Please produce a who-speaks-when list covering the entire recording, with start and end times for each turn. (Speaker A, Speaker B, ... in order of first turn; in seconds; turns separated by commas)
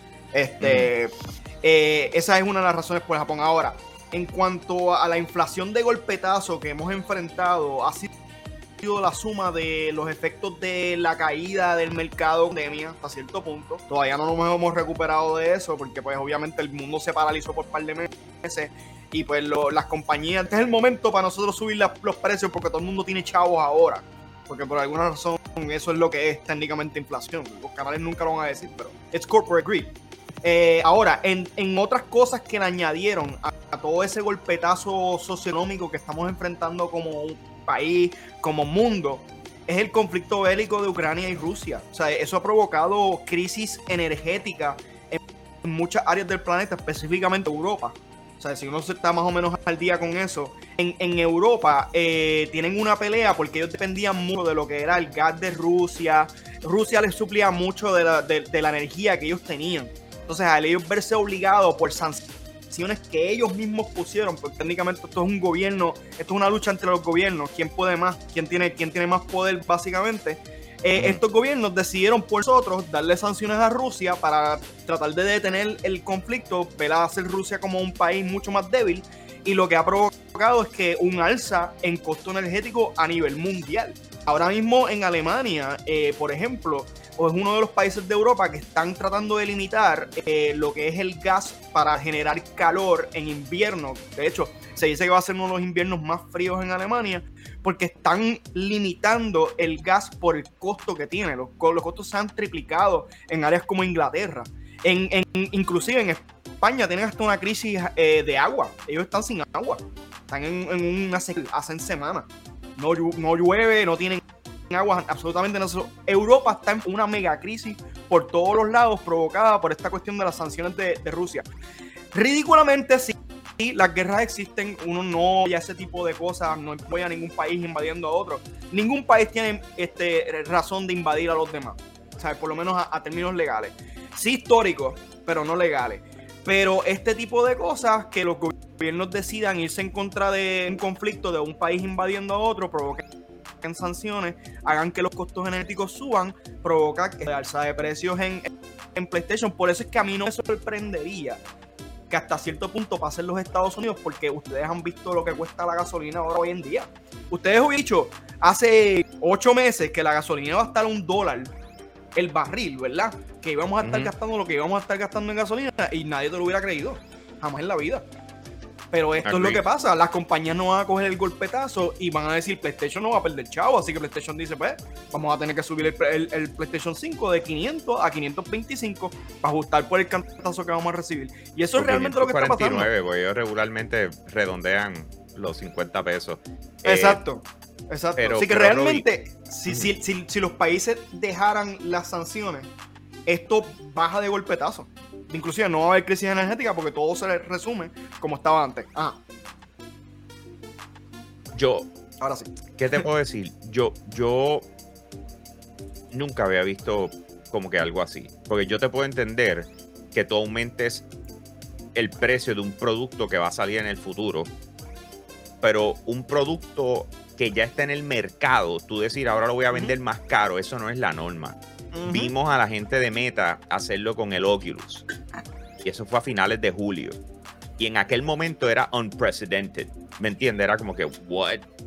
Speaker A: 0.3-8.1, Speaker B: 0.6-0.9, Speaker A: 8.8-29.9, Speaker A: 30.4-121.5, Speaker B: 71.0-71.2, Speaker A: 122.1-143.1, Speaker A: 143.6-151.4, Speaker A: 152.1-161.5, Speaker A: 162.2-168.1, Speaker B: 163.8-164.1, Speaker A: 168.9-182.9, Speaker B: 169.2-169.6, Speaker B: 181.8-187.2, Speaker A: 186.8-192.7, Speaker B: 188.2-189.1, Speaker A: 193.3-199.2, Speaker B: 201.5-201.9, Speaker A: 202.2-203.0, Speaker B: 202.8-204.7, Speaker B: 206.1-211.1, Speaker B: 211.9-214.5, Speaker B: 215.6-221.6, Speaker A: 221.9-222.3, Speaker B: 222.1-225.1, Speaker B: 225.8-227.2, Speaker B: 227.8-231.6